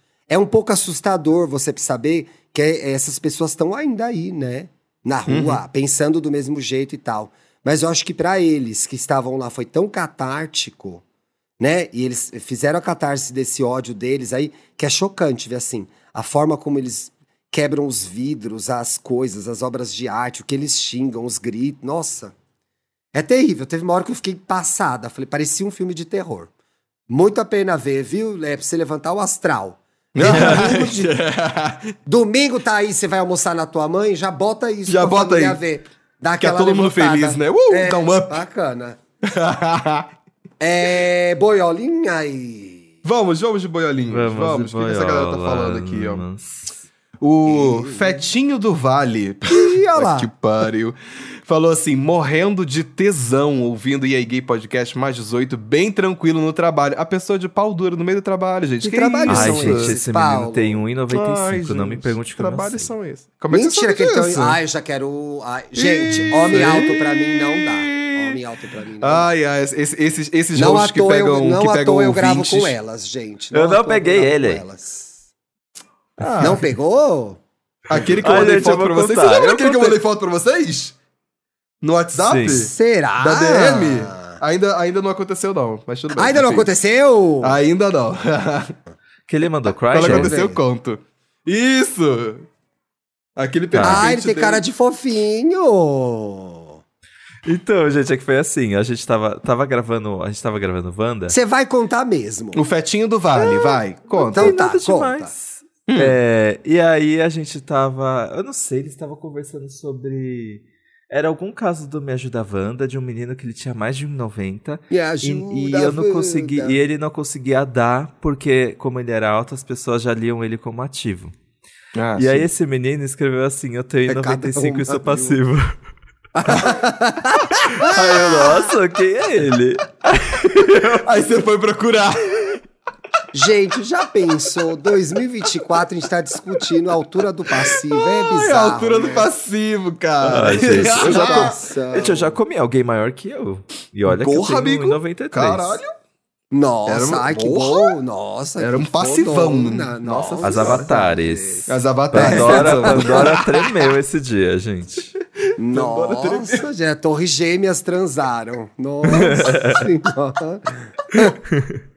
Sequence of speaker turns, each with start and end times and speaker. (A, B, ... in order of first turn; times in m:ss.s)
0:00.3-0:11.0 A
0:05.3-0:05.6 B
0:11.6-0:22.3 A
0:23.1-0:26.5 A
0:27.1-0:31.1 A
0:30.1-0:31.9 B
0:30.3-0:30.7 C
0:32.0-0:39.0 A
0:34.9-0:35.6 B
0:36.4-0:38.4 B
0:39.2-0:40.1 B
0:40.6-0:42.9 A
0:43.0-0:46.2 B
0:44.1-0:46.8 C
0:47.2-1:00.0 B
0:47.4-0:48.3 A
0:49.5-0:50.3 A
0:58.8-1:00.8 A
0:59.3-1:02.9 C
1:01.1-1:04.6 B
1:03.5-1:09.3 A
1:05.8-1:08.4 B
1:09.0-1:12.7 B
1:10.5-1:15.2 A
1:13.5-1:14.6 C
1:16.2-1:16.6 B
1:16.4-1:17.4 A
1:17.9-1:21.0 B
1:18.2-1:20.0 C
1:21.8-1:26.7 B
1:22.2-1:22.6 C
1:22.4-1:24.4 A
1:26.2-1:27.6 A
1:27.4-1:28.8 B
1:29.3-1:30.3 C
1:29.9-1:32.5 B
1:29.9-1:30.6 A
1:33.4-1:34.6 B
1:33.7-1:34.1 C
1:33.8-1:36.8 A
1:37.4-1:41.3 C
1:41.3-1:42.6 A
1:42.5-1:44.6 B
1:43.4-2:01.3 C
1:44.3-1:45.3 A
1:45.9-1:46.1 B
1:54.9-1:56.8 A
2:01.9-2:02.5 B
2:02.2-2:05.7 C
2:04.1-2:05.4 A
2:06.4-2:08.7 A
2:06.5-2:06.8 B
2:07.8-2:11.1 C
2:11.0-2:12.6 B
2:13.3-2:19.3 A
2:17.5-2:21.6 B
2:20.2-2:22.3 A
2:20.3-2:25.8 C
2:24.0-2:25.9 B
2:26.5-2:33.4 A
2:26.9-2:28.0 B
2:28.6-2:30.9 B
2:30.4-2:35.1 C
2:31.7-2:33.7 B
2:35.6-2:41.4 A
2:35.6-2:36.6 B
2:39.1-2:39.9 C
2:39.2-2:39.5 B
2:41.5-2:41.8 C